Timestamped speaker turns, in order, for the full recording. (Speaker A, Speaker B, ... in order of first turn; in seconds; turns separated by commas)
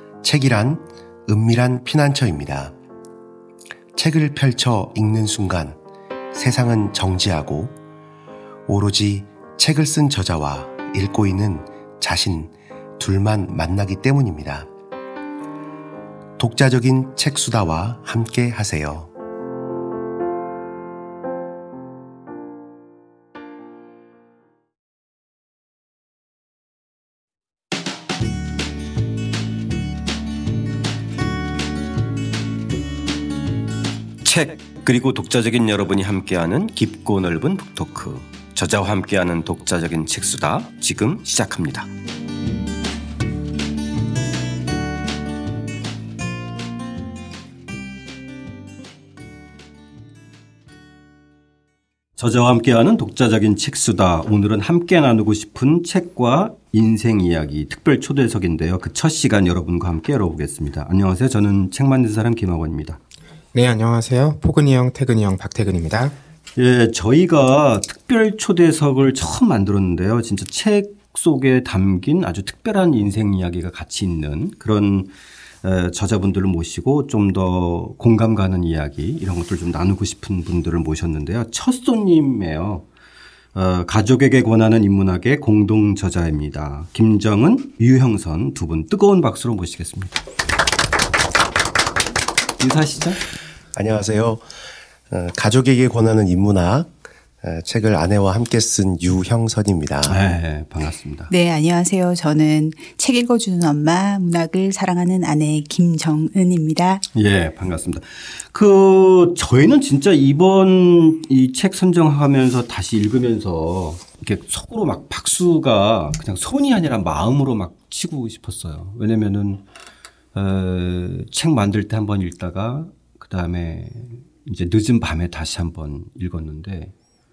Speaker A: 0.2-2.7, Speaker A: 3.9-5.8, Speaker A: 6.3-7.7, Speaker A: 8.7-14.7, Speaker A: 16.4-19.1, Speaker B: 34.2-41.9, Speaker B: 52.2-63.0, Speaker C: 63.5-66.1, Speaker B: 66.6-75.1, Speaker B: 75.6-82.8, Speaker B: 83.5-90.2, Speaker B: 92.6-93.2, Speaker A: 93.7-94.4, Speaker A: 95.1-100.2, Speaker B: 100.0-101.3, Speaker D: 101.3-107.0, Speaker B: 107.1-119.6, Speaker B: 120.3-126.9